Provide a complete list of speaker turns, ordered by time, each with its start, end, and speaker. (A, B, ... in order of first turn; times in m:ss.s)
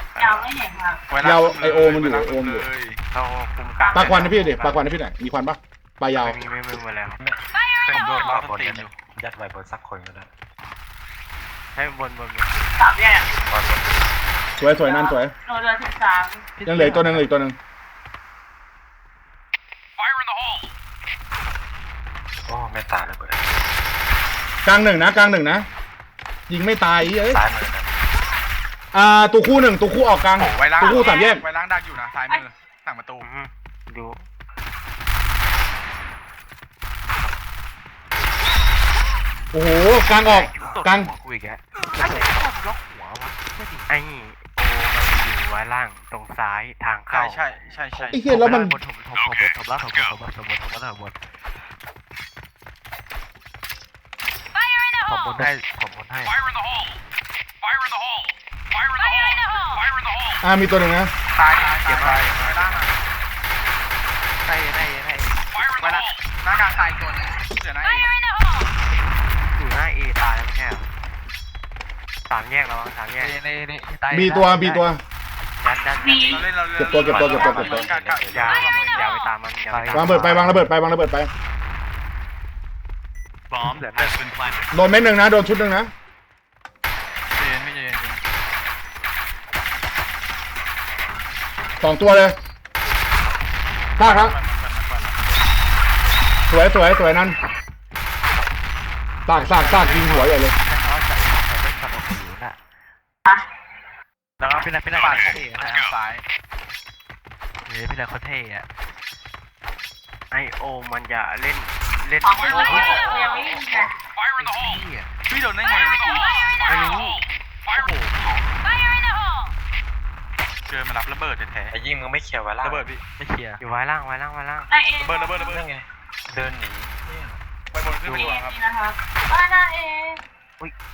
0:00.2-0:00.5 A
0:00.2-0:01.1 B
0:01.1-0:03.0 C
0:01.2-0:02.7 D
0:03.1-0:04.8 A
0:03.8-0:04.2 B
0:03.9-0:06.4 D
0:06.1-0:07.2 A
0:07.2-0:10.3 E
0:07.9-0:08.9 C
0:11.8-0:12.7 A
0:12.8-0:13.3 B
0:13.4-0:13.9 E
0:14.6-0:15.3 D
0:14.8-0:16.5 B
0:16.6-0:17.3 F
0:16.7-0:17.6 D
0:22.4-0:23.5 E
0:24.6-0:25.7 D
0:26.5-0:27.4 D
0:27.2-0:27.9 E
0:28.9-0:31.4 D
0:30.4-0:33.3 C
0:30.8-0:31.4 B
0:33.2-0:34.2 A
0:39.5-0:41.1 D
0:40.2-0:40.8 A
0:40.6-0:43.9 F
0:43.9-0:47.4 A
0:47.1-0:48.4 C
0:48.0-0:51.2 F
0:48.1-0:48.8 D
0:55.0-0:56.4 F
1:00.4-1:01.1 D
1:01.4-1:03.0 C
1:01.8-1:02.9 A
1:04.4-1:06.1 F
1:06.4-1:08.1 C
1:09.6-1:10.9 A
1:12.3-1:13.4 A
1:13.2-1:14.9 F
1:14.1-1:15.0 D
1:15.6-1:16.7 A
1:16.0-1:16.4 B
1:16.3-1:19.1 C
1:16.8-1:17.9 D
1:17.0-1:19.1 E
1:17.6-1:20.4 A
1:19.7-1:20.7 F
1:19.9-1:21.3 D
1:23.7-1:24.2 A
1:24.7-1:25.9 D
1:27.3-1:28.2 C
1:31.8-1:32.4 D
1:34.0-1:34.4 D
1:34.0-1:35.3 C
1:36.5-1:37.4 D
1:39.3-1:40.6 D
1:39.3-1:42.6 F
1:39.6-1:40.3 C
1:44.4-1:46.2 C
1:44.4-1:45.8 F
1:47.7-1:48.7 F
1:50.3-1:53.3 A
1:52.2-1:54.0 B
1:52.5-1:53.4 C
1:52.7-1:53.0 F
1:54.4-1:55.0 A
1:54.6-1:55.1 F
1:55.3-1:56.3 C
1:56.6-1:57.2 A
1:57.7-1:58.5 C
2:00.7-2:01.8 C
2:01.7-2:02.9 E
2:02.6-2:03.0 C
2:03.2-2:03.6 F
2:03.6-2:04.7 A
2:04.7-2:05.5 B
2:05.0-2:05.6 C
2:05.5-2:07.4 E
2:07.7-2:08.6 C
2:08.0-2:08.4 A
2:08.3-2:10.2 B